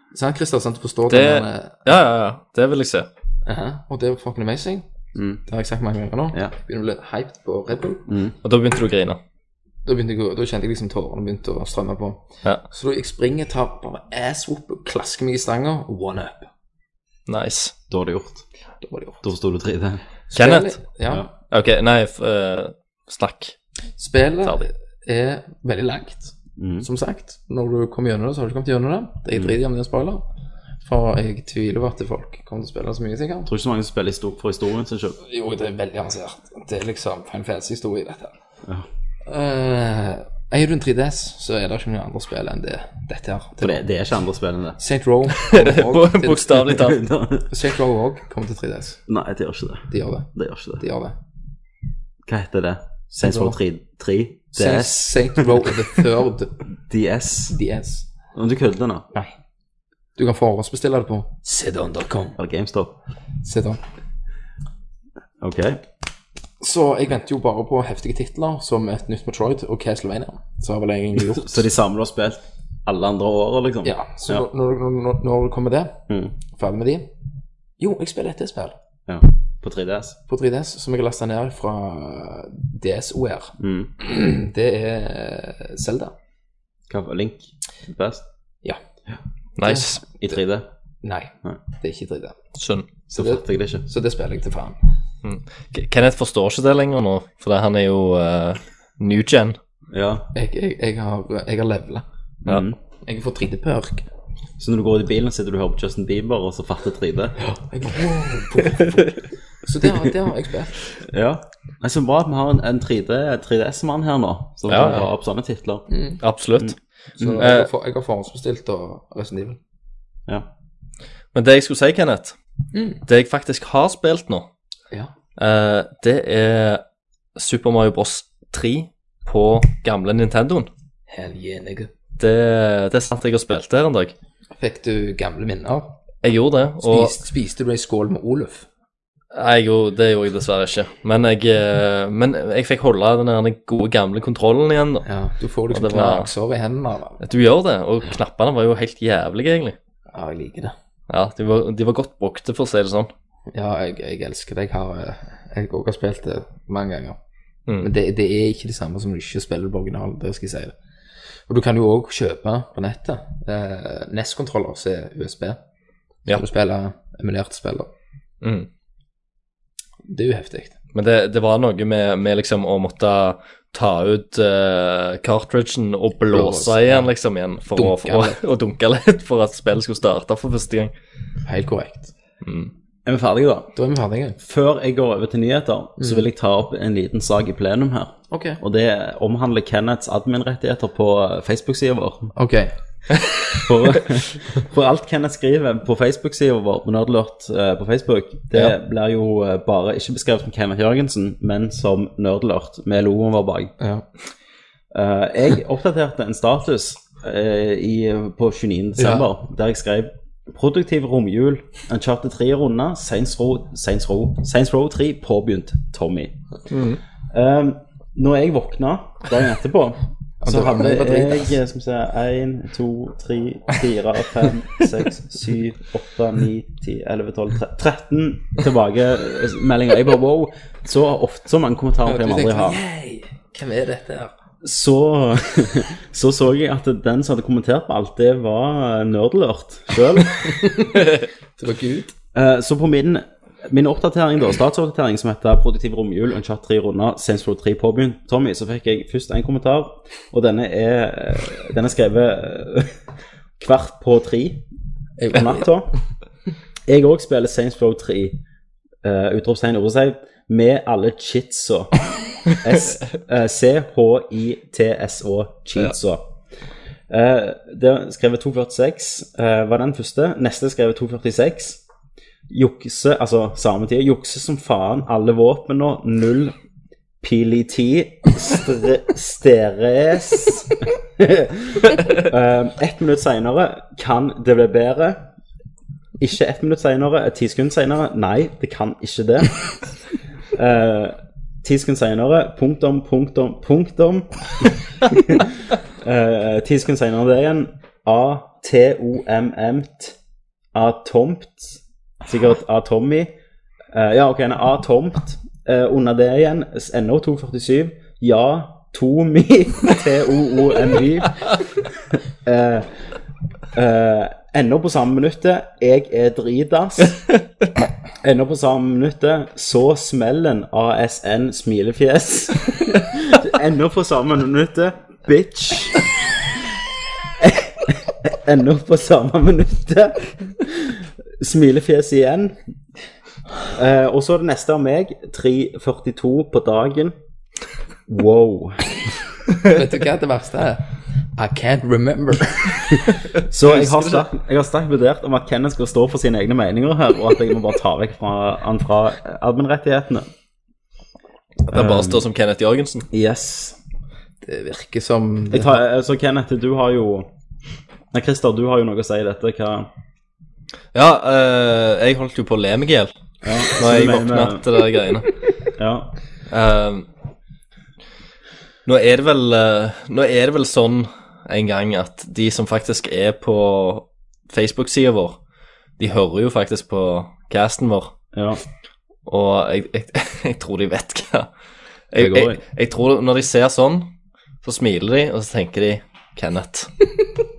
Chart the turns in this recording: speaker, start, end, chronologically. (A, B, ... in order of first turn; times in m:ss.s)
0:00.1-0:01.8 A
0:01.1-0:03.1 B
0:03.5-0:04.9 A
0:05.2-0:05.4 C
0:05.5-0:08.1 A
0:08.1-0:08.4 C
0:08.4-0:09.2 B
0:09.9-0:16.5 A
0:17.3-0:17.7 B
0:17.9-0:18.4 C
0:18.8-0:19.2 A
0:19.2-0:20.0 C
0:20.3-0:21.2 A
0:20.4-0:20.8 B
0:21.5-0:23.6 B
0:24.0-0:30.2 A
0:26.6-0:26.9 C
0:30.8-0:33.5 A
0:33.5-0:35.2 C
0:35.2-0:38.4 A
0:39.3-0:43.8 A
0:43.6-0:44.8 C
0:44.8-0:46.8 A
0:45.3-0:47.1 B
0:46.7-0:47.5 C
0:47.5-0:49.0 A
0:49.1-0:50.8 C
0:49.9-0:51.2 A
0:52.3-0:55.7 C
0:53.2-0:53.6 A
0:54.6-0:56.6 A
0:56.9-0:57.6 C
0:57.5-0:58.1 A
0:58.3-0:59.1 C
1:00.2-1:02.4 A
1:02.4-1:03.0 C
1:03.4-1:03.8 A
1:05.4-1:05.8 C
1:06.6-1:11.6 A
1:11.2-1:14.4 C
1:13.8-1:17.1 A
1:16.1-1:16.3 C
1:17.8-1:18.8 A
1:19.1-1:20.2 C
1:20.3-1:26.2 A
1:23.6-1:23.9 C
1:26.9-1:28.2 C
1:29.6-1:30.0 B
1:29.6-1:30.4 A
1:30.2-1:30.7 C
1:31.0-1:32.4 A
1:32.6-1:32.9 B
1:33.1-1:33.8 C
1:33.1-1:34.8 A
1:35.2-1:39.6 B
1:39.9-1:40.3 C
1:40.3-1:42.0 A
1:42.4-1:42.8 C
1:43.0-1:44.1 A
1:44.6-1:47.4 C
1:47.4-1:50.7 A
1:51.0-1:55.9 C
1:54.7-1:55.1 B
1:55.9-1:56.2 A
1:56.2-1:56.8 B
1:56.6-1:57.5 C
1:57.2-1:59.6 A
1:57.4-1:57.7 B
2:01.3-2:02.4 B
2:02.7-2:03.0 A
2:03.1-2:04.5 B
2:05.4-2:06.8 B
2:07.4-2:10.7 B
2:11.1-2:11.9 A
2:12.2-2:14.1 B
2:14.6-2:16.0 A
2:16.2-2:17.2 B
2:16.8-2:18.7 A
2:19.3-2:25.0 B
2:25.0-2:27.2 A
2:25.7-2:26.3 B
2:27.2-2:29.8 B
2:30.1-2:30.8 A
2:31.1-2:33.1 B
2:33.5-2:37.2 A
2:37.8-2:40.8 A
2:41.5-2:45.6 A
2:46.3-2:47.9 A
2:48.4-2:48.7 B
2:50.0-2:50.7 A
2:50.9-3:00.9 B
2:56.3-2:57.1 A
2:57.8-2:58.4 A
3:01.5-3:02.1 A
3:02.4-3:02.7 B
3:03.1-3:03.7 C
3:03.8-3:04.4 A
3:04.4-3:12.3 C
3:06.0-3:06.2 A
3:08.3-3:08.6 A
3:12.4-3:12.7 A
3:13.6-3:23.7 C
3:24.9-3:36.4 C
3:29.0-3:29.3 A
3:36.7-3:37.0 B
3:37.3-3:52.8 C
3:40.4-3:41.6 A
3:52.1-3:54.3 A
3:54.6-4:00.4 C
4:00.5-4:01.0 A
4:01.6-4:02.1 A
4:02.3-4:13.0 C
4:13.6-4:14.7 C
4:15.2-4:15.6 A
4:15.3-4:15.9 C
4:16.9-4:18.4 C
4:19.0-4:26.3 C
4:27.1-4:31.8 C
4:32.5-4:36.5 C
4:37.2-4:45.2 C
4:46.2-4:49.9 C
4:50.5-5:00.2 C
5:00.7-5:03.3 C
5:03.9-5:11.6 C
5:12.4-5:12.9 C
5:13.7-5:17.2 C
5:18.2-5:26.0 C
5:27.4-5:32.6 C
5:33.7-5:37.2 C
5:38.1-5:39.0 C
5:39.6-5:43.0 A
5:43.5-5:50.3 C
5:43.6-5:44.2 B
5:51.6-5:53.1 B
5:51.7-5:52.2 C
5:53.1-5:53.8 C
5:54.4-5:55.8 A
5:55.5-5:57.3 C
5:58.1-5:59.9 C
6:00.9-6:03.1 B
6:03.4-6:04.7 C
6:03.7-6:05.4 B
6:05.8-6:06.1 C
6:06.5-6:07.1 B
6:08.9-6:15.4 B
6:16.0-6:18.1 B
6:18.3-6:18.6 C
6:19.3-6:21.5 B
6:22.1-6:24.1 B
6:22.2-6:22.6 C
6:24.6-6:26.9 B